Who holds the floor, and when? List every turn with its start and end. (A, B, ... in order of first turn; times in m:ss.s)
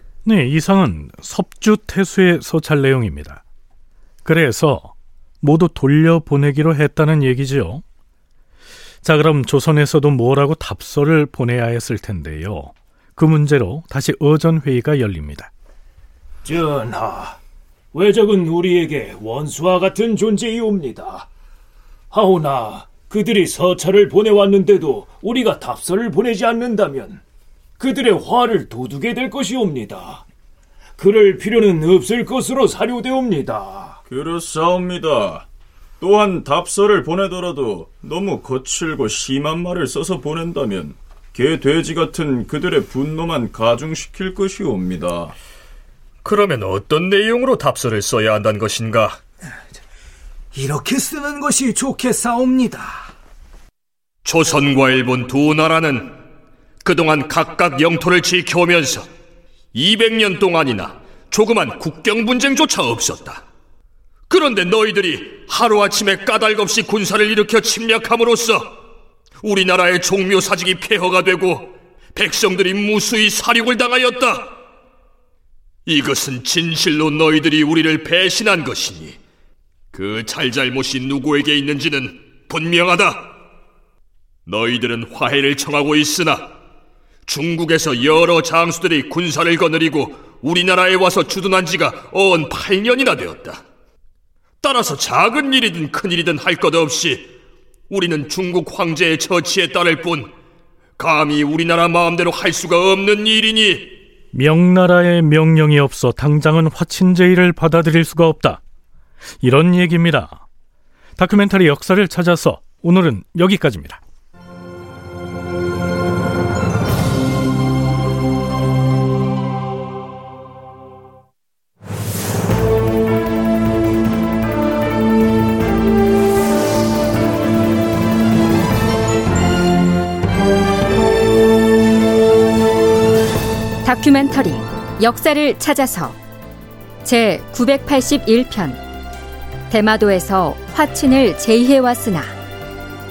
0:00.2-0:03.4 A
0:04.2-0:07.8 A
0:09.0-0:15.5 A
0:16.4-0:17.4 B
0:17.9-0:21.3 B
0:22.1-0:27.2 B
0:27.8-0:30.2 B
0:31.0-0:34.0 B
0:34.1-0:35.5 C
0:36.0-0:45.4 C
0:46.2-0:49.2 D
0:50.6-0:52.8 E
0:54.2-0:56.2 D
0:56.8-0:59.1 D
0:59.7-1:03.4 D
1:04.3-1:08.7 D
1:09.4-1:14.5 D
1:15.9-1:19.2 D
1:19.9-1:23.3 D
1:24.5-1:26.5 D
1:27.3-1:33.6 D
1:34.6-1:37.3 D
1:37.9-1:40.3 D
1:41.0-1:44.0 D
1:44.3-1:48.6 A
1:49.4-1:50.4 A
1:51.2-1:54.0 A
2:13.8-2:16.2 F
2:17.0-2:18.8 F
2:19.7-2:22.4 F